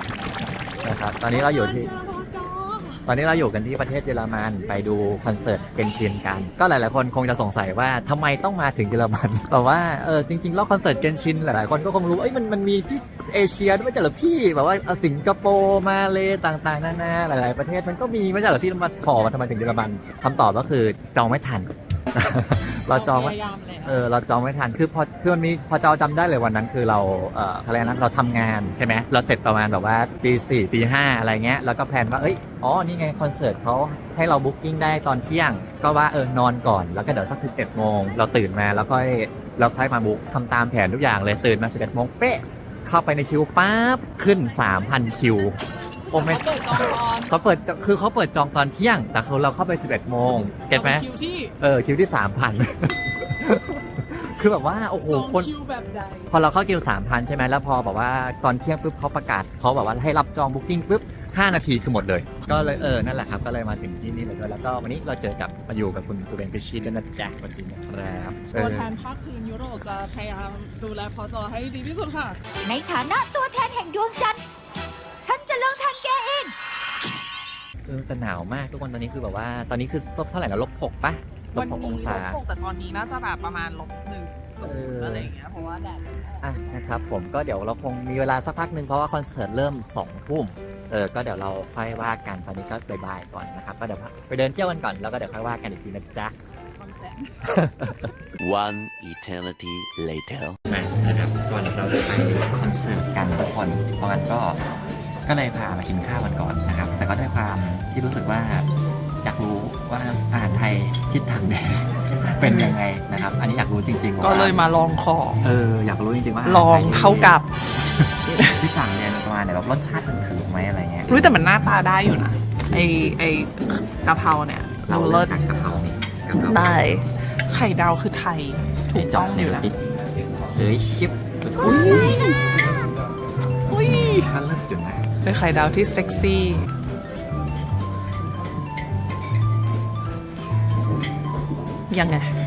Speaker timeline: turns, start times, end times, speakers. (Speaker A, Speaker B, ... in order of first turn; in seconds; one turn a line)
Speaker A: 0.4-1.9
Speaker B: 1.3-3.0
Speaker A: 3.0-45.6
Speaker B: 22.9-24.0
Speaker A: 46.1-51.0
Speaker B: 46.1-47.3
Speaker B: 50.7-51.5
Speaker A: 51.6-55.5
Speaker B: 55.1-56.3
Speaker A: 56.3-68.9
Speaker B: 62.5-62.9
Speaker B: 68.5-72.4
Speaker C: 72.6-74.4
Speaker C: 75.2-76.5
Speaker A: 77.8-82.4
Speaker B: 81.5-86.5
Speaker A: 84.6-85.3
Speaker A: 86.4-96.3
Speaker B: 96.8-97.3
Speaker A: 97.4-98.1
Speaker D: 98.4-100.6
Speaker A: 100.7-104.6
Speaker A: 105.2-108.7
Speaker A: 109.2-114.6
Speaker B: 112.4-112.7
Speaker B: 114.2-115.5
Speaker A: 115.4-117.4
Speaker B: 116.4-117.5
Speaker A: 117.9-121.7
Speaker B: 118.3-118.6
Speaker B: 121.1-125.4
Speaker A: 122.6-123.2
Speaker A: 124.8-126.7
Speaker B: 126.4-129.7
Speaker A: 128.9-129.7
Speaker A: 130.5-132.2
Speaker B: 131.6-132.4
Speaker B: 133.7-134.3
Speaker A: 133.7-135.1
Speaker B: 135.2-136.7
Speaker B: 141.9-142.3